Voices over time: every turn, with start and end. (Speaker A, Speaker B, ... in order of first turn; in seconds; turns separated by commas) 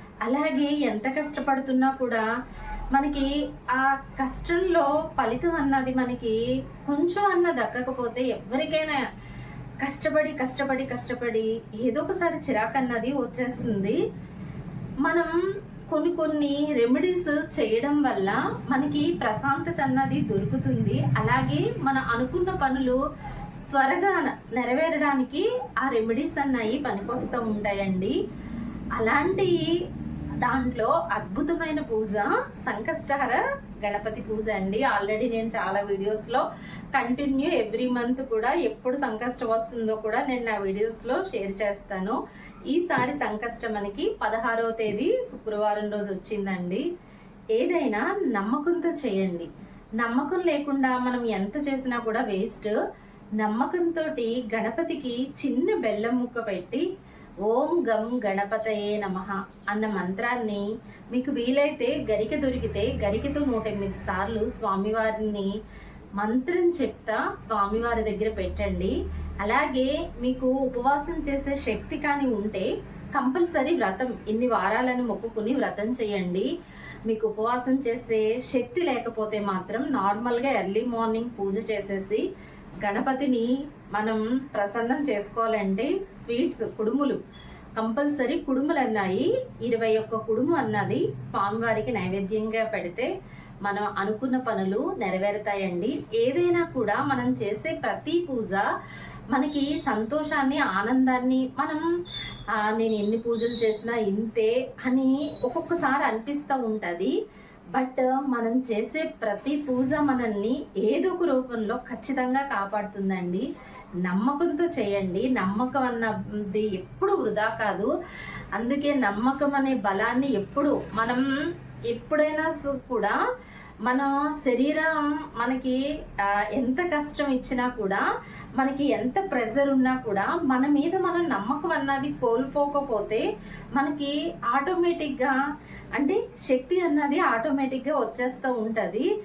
Speaker A: 0.2-2.2, Speaker A: 2.9-9.0, Speaker A: 9.8-14.0, Speaker A: 15.0-15.3, Speaker A: 15.9-23.0, Speaker A: 23.7-28.1, Speaker A: 29.0-29.8, Speaker A: 30.4-42.2, Speaker A: 42.7-46.9, Speaker A: 47.6-49.5, Speaker A: 50.0-52.8, Speaker A: 53.4-56.9, Speaker A: 57.4-65.5, Speaker A: 66.2-76.5, Speaker A: 77.1-82.2, Speaker A: 82.8-87.2, Speaker A: 87.8-93.1, Speaker A: 93.6-98.7, Speaker A: 99.3-101.8, Speaker A: 102.5-107.1, Speaker A: 107.7-113.4, Speaker A: 114.0-117.9, Speaker A: 118.5-121.2, Speaker A: 121.9-123.2, Speaker A: 123.8-128.0, Speaker A: 128.6-135.4, Speaker A: 136.0-139.1